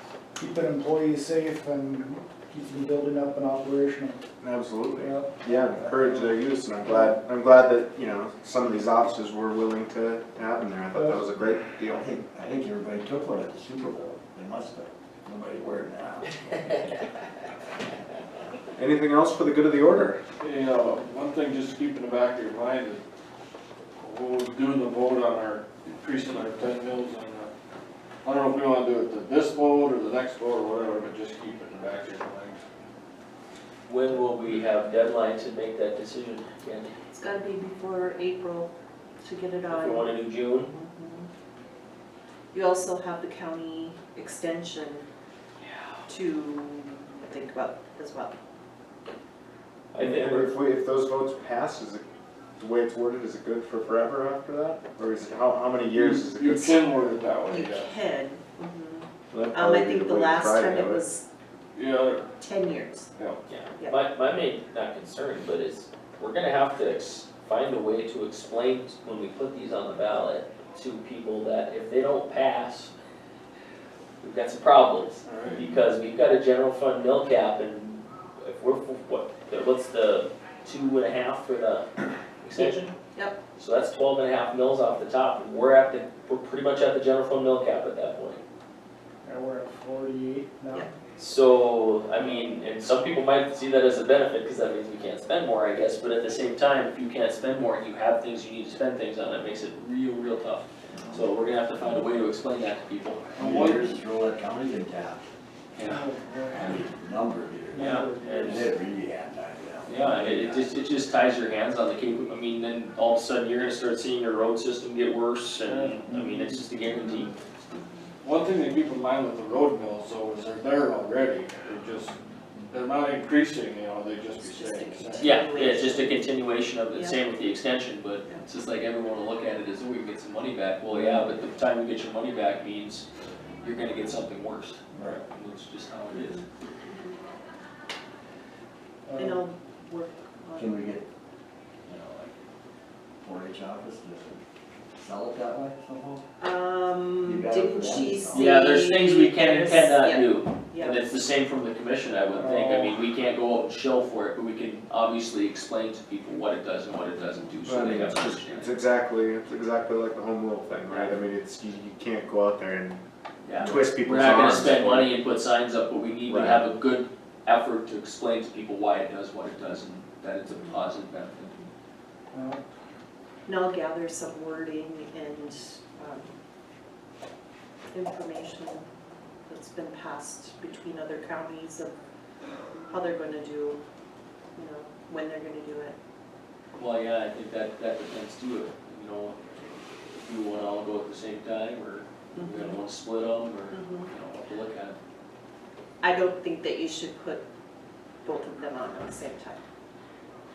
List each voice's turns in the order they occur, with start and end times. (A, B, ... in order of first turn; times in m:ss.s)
0:00.4-0:04.2 A
0:04.4-0:12.1 B
0:05.0-0:06.4 A
0:10.9-0:11.3 A
0:11.9-0:16.7 C
0:18.8-0:20.2 B
0:20.4-0:23.0 D
0:24.0-0:27.5 D
0:28.2-0:32.6 D
0:33.9-0:36.9 E
0:37.1-0:40.1 F
0:39.7-0:40.7 E
0:40.6-0:41.3 F
0:42.5-0:45.1 F
0:46.1-0:48.3 F
0:49.9-0:50.5 E
0:50.0-0:52.0 B
0:52.6-0:56.9 B
0:55.9-0:57.9 D
0:57.5-1:01.2 F
0:59.3-1:01.0 B
1:01.8-1:02.3 D
1:02.4-1:03.1 F
1:03.5-1:12.9 E
1:14.2-1:21.9 E
1:15.2-1:15.7 D
1:22.4-1:22.9 E
1:22.6-1:23.4 F
1:23.6-1:28.4 E
1:29.2-1:30.9 A
1:31.2-1:43.3 E
1:40.9-1:41.3 C
1:43.3-1:45.3 C
1:43.4-1:44.0 D
1:45.8-1:46.0 E
1:45.8-1:46.9 A
1:46.5-1:50.7 C
1:47.7-1:48.7 A
1:47.7-1:48.7 E
1:49.8-1:57.3 E
1:55.7-1:56.1 D
1:56.1-1:56.6 A
1:58.2-2:02.1 D
2:02.7-2:05.4 D
2:04.4-2:06.2 F
2:05.2-2:13.1 E
2:06.9-2:07.2 F
2:10.9-2:11.3 C
2:13.6-2:16.4 E
2:16.2-2:17.2 F
2:19.1-2:19.4 A
2:19.2-2:20.9 F
2:20.6-2:21.1 C
2:21.9-2:22.4 C
2:23.2-2:24.4 C
2:25.0-2:26.2 C
2:26.4-2:31.0 F
2:27.2-2:28.6 C
2:28.4-2:38.7 E
2:32.4-2:32.9 A
2:37.6-2:43.0 B
2:40.9-2:41.2 E
2:43.4-2:51.5 E
2:43.6-2:45.1 B
2:46.3-2:46.6 B
2:52.3-2:52.6 A
2:53.5-2:56.3 F
2:57.9-2:58.9 F
2:59.5-3:01.9 F
3:02.8-3:03.8 F
3:04.6-3:06.0 F
3:06.8-3:09.4 E
3:10.2-3:15.0 E
3:12.3-3:12.8 F
3:13.7-3:14.1 F
3:16.0-3:17.4 F
3:18.2-3:19.6 F